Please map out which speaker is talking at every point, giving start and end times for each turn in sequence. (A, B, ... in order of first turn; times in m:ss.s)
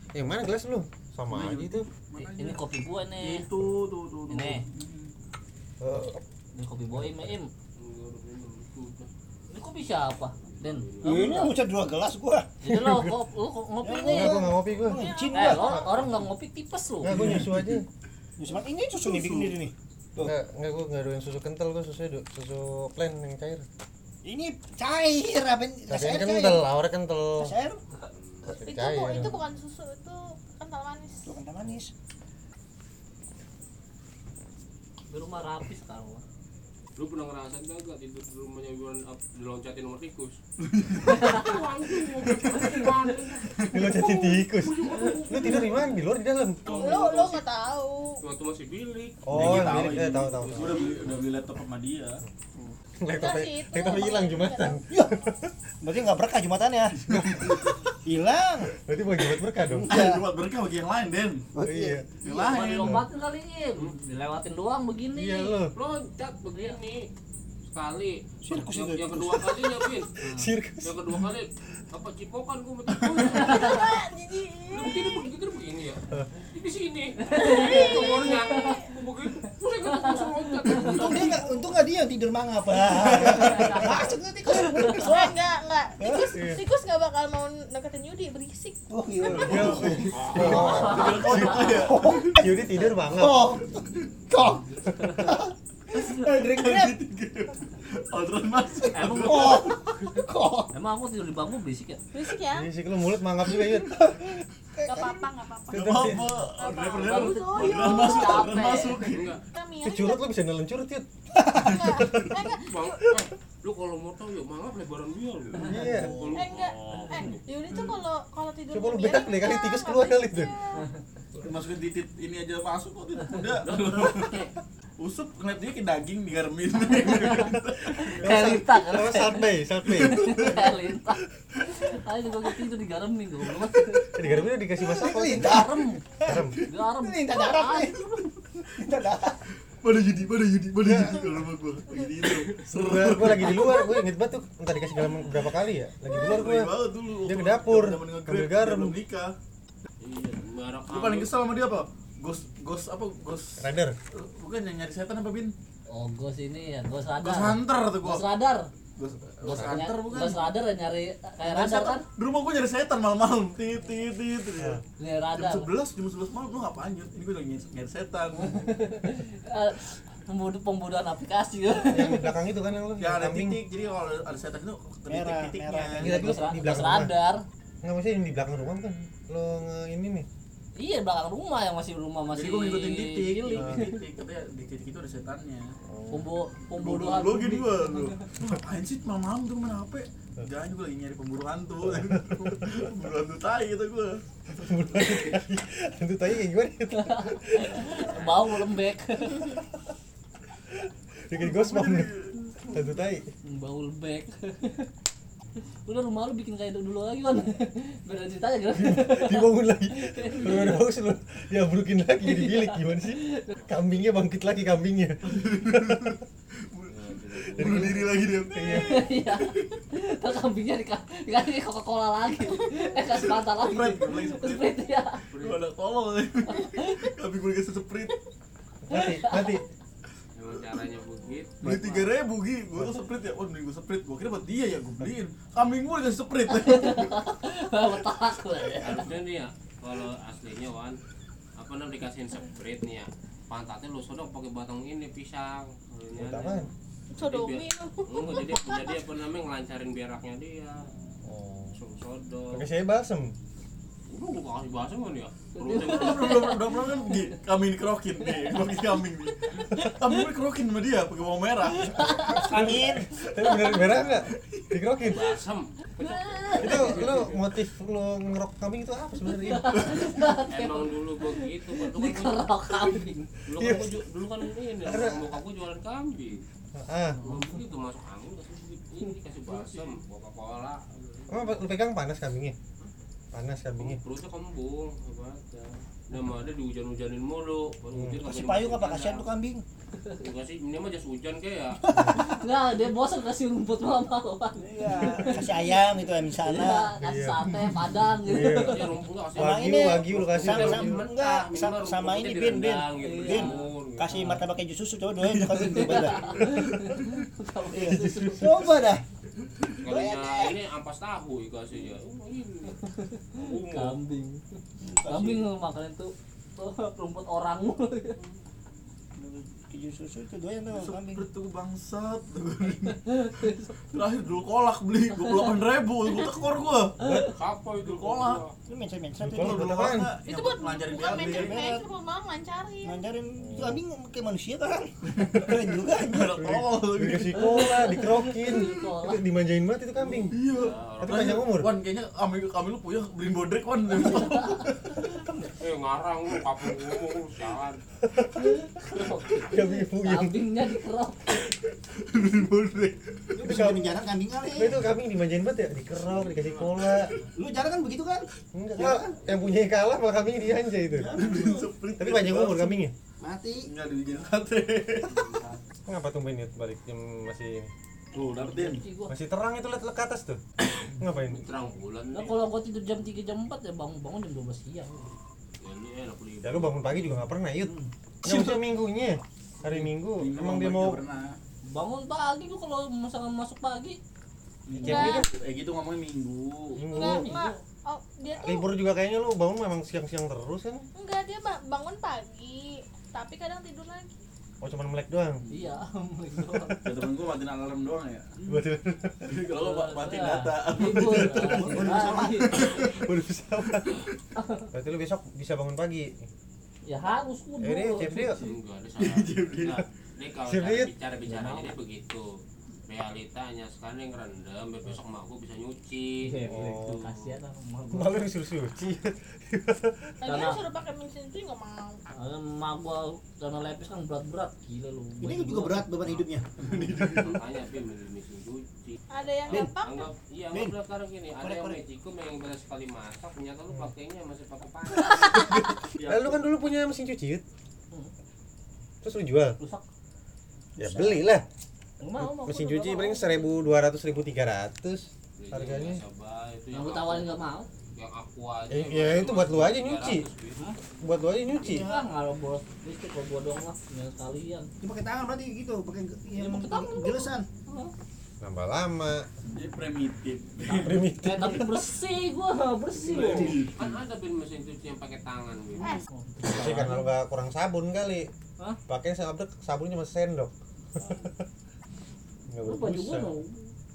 0:00.1-0:01.9 A
0:01.3-0:02.6 B
0:02.1-0:03.5 C
0:03.2-0:05.1 B
0:04.3-0:04.6 C
0:05.8-0:06.2 A
0:06.5-0:07.5 C
0:06.9-0:07.4 A
0:07.8-0:09.1 D
0:09.5-0:11.5 C
0:10.5-0:11.5 D
0:11.0-0:12.5 E
0:12.6-0:14.4 C
0:12.7-0:13.1 A
0:13.8-0:15.7 E
0:14.0-0:15.0 A
0:14.9-0:15.9 F
0:15.3-0:17.2 C
0:17.0-0:17.8 A
0:17.1-0:17.8 E
0:18.4-0:20.3 E
0:20.2-0:23.6 A
0:24.2-0:26.7 E
0:25.9-0:27.5 A
0:27.4-0:27.8 E
0:28.0-0:28.6 D
0:28.4-0:29.4 A
0:28.6-0:31.4 F
0:31.2-0:31.9 E
0:35.1-0:36.2 C
0:37.0-0:40.4 D
0:40.6-0:41.5 B
0:41.0-0:46.0 D
0:41.0-0:41.4 C
0:42.2-0:42.8 B
0:42.6-0:42.9 C
0:43.7-0:46.7 A
0:46.6-0:47.4 D
0:46.7-0:47.4 B
0:46.7-0:48.2 F
0:48.2-0:51.3 D
0:49.2-0:50.8 A
0:49.3-0:52.2 B
0:53.0-0:55.5 A
0:53.1-0:54.8 F
0:54.9-0:55.2 E
0:55.8-0:58.7 E
0:57.0-0:57.6 B
0:57.1-0:57.5 A
0:58.8-1:00.0 A
0:59.6-1:00.2 E
0:59.8-1:01.5 B
1:01.5-1:02.5 E
1:01.6-1:02.1 A
1:02.2-1:03.0 B
1:02.4-1:05.6 C
1:05.1-1:05.7 A
1:05.7-1:07.1 D
1:07.6-1:10.1 D
1:08.4-1:09.8 E
1:10.2-1:10.5 C
1:10.2-1:11.2 A
1:10.8-1:14.0 D
1:13.2-1:15.3 F
1:14.7-1:21.3 D
1:17.2-1:18.7 C
1:17.3-1:18.9 F
1:19.8-1:21.3 C
1:20.8-1:25.4 E
1:21.3-1:21.8 F
1:23.0-1:23.6 B
1:23.2-1:24.8 C
1:24.9-1:28.8 F
1:26.0-1:26.4 E
1:26.3-1:26.6 A
1:28.9-1:30.8 E
1:29.2-1:32.4 B
1:29.3-1:31.2 A
1:30.1-1:31.9 C
1:30.5-1:30.9 D
1:31.8-1:37.0 E
1:32.4-1:33.4 A
1:34.7-1:35.3 C
1:36.2-1:39.7 B
1:38.9-1:39.7 C
1:39.2-1:40.7 E
1:40.7-1:42.0 C
1:42.1-1:42.7 F
1:42.5-1:43.9 A
1:43.5-1:45.2 E
1:44.9-1:46.0 F
1:45.7-1:49.4 B
1:45.7-1:46.3 A
1:46.6-1:50.3 F
1:46.9-1:47.5 D
1:47.3-1:49.1 C
1:49.1-1:49.4 D
1:49.8-1:51.0 A
1:51.4-1:51.7 E
1:51.6-1:53.2 F
1:51.8-1:52.4 B
1:52.6-1:57.4 D
1:55.6-1:56.3 A
1:55.6-1:56.0 C
1:56.3-2:00.9 F
1:58.7-2:00.5 A
2:01.4-2:04.4 B
2:03.6-2:04.5 D
2:05.0-2:08.2 B
2:07.0-2:07.3 C
2:08.0-2:14.1 C
2:08.1-2:10.3 A
2:10.0-2:10.6 B
2:14.1-2:15.6 A
2:15.1-2:16.0 C
2:15.1-2:15.7 E
2:16.2-2:16.6 A
2:16.6-2:18.0 C
2:17.0-2:19.4 E
2:19.7-2:23.9 B
2:20.8-2:21.2 A
2:22.7-2:26.7 A
2:26.1-2:29.3 B
2:27.2-2:29.0 A
2:30.0-2:31.5 D
2:30.9-2:35.5 B
2:33.6-2:34.0 A
2:35.9-2:38.7 C
2:37.2-2:38.2 B
2:39.0-2:40.5 B
2:39.4-2:42.0 C
2:41.4-2:48.7 B
2:45.0-2:45.7 C
2:48.4-2:52.3 C
2:51.8-2:53.6 A
2:53.0-2:56.1 B
2:55.1-2:56.4 E
2:56.0-2:57.1 A
2:56.0-2:57.4 C
2:57.8-3:00.2 A
3:00.8-3:04.0 C
3:02.3-3:05.7 B
3:03.6-3:03.8 A
3:05.9-3:06.2 A
3:06.1-3:07.9 C
3:06.8-3:14.2 B
3:11.9-3:12.7 A
3:14.6-3:18.0 A
3:16.9-3:19.6 C
3:17.6-3:18.5 D
3:21.3-3:22.1 A
3:21.3-3:22.5 B
3:22.7-3:23.2 A
3:23.5-3:24.9 C
3:25.8-3:30.8 C
3:28.7-3:35.2 A
3:32.2-3:33.5 C
3:35.2-3:39.4 B
3:36.9-3:38.0 D
3:37.6-3:38.9 A
3:38.7-3:45.2 C
3:43.1-3:48.2 B
3:45.3-3:45.6 D
3:46.6-3:47.0 C
3:48.8-3:49.6 A
3:48.9-3:49.6 C
3:50.3-3:51.8 D
3:51.6-3:57.2 B
3:56.5-3:59.1 C
3:58.8-4:01.0 D
4:01.6-4:10.9 D
4:06.1-4:06.7 A
4:07.1-4:09.0 F
4:11.2-4:11.8 A
4:11.7-4:12.7 D
4:12.5-4:13.3 A
4:14.1-4:16.6 D
4:15.5-4:16.9 C
4:15.7-4:22.4 B
4:21.9-4:22.4 C
4:22.3-4:25.2 A
4:22.3-4:22.8 D
4:22.5-4:23.0 E
4:23.2-4:24.8 B
4:25.0-4:27.3 D
4:26.0-4:27.1 C
4:26.6-4:29.8 A
4:29.4-4:33.3 C
4:30.5-4:32.5 D
4:33.4-4:36.4 D
4:33.6-4:34.0 A
4:34.8-4:35.4 A
4:36.8-4:37.2 A
4:37.2-4:41.6 D
4:39.5-4:40.0 B
4:41.3-4:42.6 A
4:43.3-4:44.0 A
4:43.8-4:49.3 D
4:47.9-4:48.2 A
4:48.2-4:49.6 E
4:50.2-4:51.8 D
4:51.9-4:52.2 E
4:51.9-4:52.2 A
4:52.1-4:55.6 C
4:54.6-4:56.9 E
4:56.4-4:58.9 C
4:57.0-4:57.5 A
4:58.2-5:01.0 A
4:58.3-5:04.2 D
4:59.4-5:06.2 E
5:03.0-5:04.4 C
5:05.3-5:07.1 B
5:05.6-5:08.5 C
5:07.7-5:09.0 E
5:07.9-5:08.4 A
5:09.8-5:12.8 D
5:09.8-5:10.6 E
5:12.8-5:18.2 C
5:13.3-5:14.0 D
5:14.8-5:15.5 E
5:18.2-5:18.4 D
5:19.2-5:21.2 E
5:20.7-5:27.2 B
5:22.8-5:23.7 C
5:25.2-5:25.5 C
5:27.0-5:27.3 C
5:27.2-5:28.5 D
5:27.8-5:28.4 B
5:28.7-5:29.7 E
5:29.2-5:30.1 A
5:29.3-5:31.7 B
5:30.2-5:33.0 F
5:31.3-5:31.8 E
5:32.8-5:36.3 E
5:33.4-5:33.8 A
5:35.1-5:37.8 B
5:36.4-5:40.4 A
5:37.4-5:39.2 C
5:40.0-5:45.0 B
5:40.5-5:41.4 D
5:41.0-5:41.7 A
5:44.3-5:44.7 C
5:45.5-5:47.8 D
5:48.0-5:48.5 A
5:48.4-5:51.4 C
5:49.5-5:50.4 A
5:51.3-5:53.6 B
5:53.3-5:54.8 E
5:53.4-5:53.9 A
5:54.5-5:57.1 A
5:56.0-5:57.3 D
5:57.3-5:59.2 E
5:58.5-6:01.1 A
6:00.9-6:01.7 E
6:01.1-6:02.8 B
6:02.0-6:02.9 A
6:03.2-6:03.7 E
6:03.6-6:05.3 B
6:05.0-6:05.6 D
6:05.8-6:07.7 A
6:08.1-6:08.8 B
6:08.4-6:09.1 C
6:09.1-6:11.4 A
6:11.2-6:12.4 D
6:12.1-6:15.2 C
6:15.6-6:16.9 D
6:16.4-6:21.0 A
6:17.6-6:17.9 E
6:18.2-6:18.5 B
6:19.6-6:21.4 B
6:21.7-6:24.0 C
6:24.7-6:26.9 B
6:24.8-6:25.2 A
6:24.8-6:25.2 F
6:26.8-6:27.3 A
6:26.9-6:28.7 F
6:26.9-6:27.6 C
6:28.4-6:30.9 A
6:31.0-6:34.1 F
6:34.6-6:35.4 A
6:35.5-6:36.9 C
6:36.8-6:38.3 B
6:38.4-6:39.3 A
6:39.2-6:42.0 B
6:39.5-6:42.7 C
6:41.3-6:42.9 E
6:42.5-6:42.9 B
6:42.6-6:44.0 A
6:44.4-6:44.7 C
6:44.7-6:46.3 A
6:46.8-6:48.4 C
6:47.6-6:48.4 A
6:48.0-6:49.8 B
6:48.3-6:52.2 D
6:50.4-6:50.9 A
6:51.3-6:51.7 C
6:52.9-6:56.3 D
6:56.2-6:58.2 C
6:56.4-6:57.1 A
6:57.9-7:00.3 A
7:00.2-7:02.0 F
7:00.2-7:00.6 C
7:02.1-7:05.9 C
7:05.2-7:06.6 E
7:06.6-7:07.4 B
7:07.0-7:15.1 D
7:09.1-7:10.1 F
7:11.4-7:11.8 E
7:15.9-7:16.5 B
7:16.0-7:17.4 A
7:19.0-7:19.6 A
7:19.6-7:19.8 C
7:20.8-7:21.4 A
7:20.8-7:21.2 C
7:22.0-7:23.7 C
7:22.2-7:26.0 A
7:25.4-7:30.6 D
7:26.7-7:27.7 C
7:28.7-7:30.2 A
7:31.0-7:31.9 A
7:31.5-7:32.1 E
7:31.8-7:34.7 C
7:34.8-7:37.5 E
7:36.3-7:37.9 C
7:38.4-7:39.3 A
7:39.5-7:41.1 B
7:40.7-7:43.6 C
7:40.7-7:41.8 A
7:43.0-7:44.0 B
7:43.8-7:46.0 D
7:45.8-7:47.1 C
7:46.4-7:48.3 A
7:48.9-7:51.3 A
7:52.5-7:53.3 A
7:52.6-7:53.7 C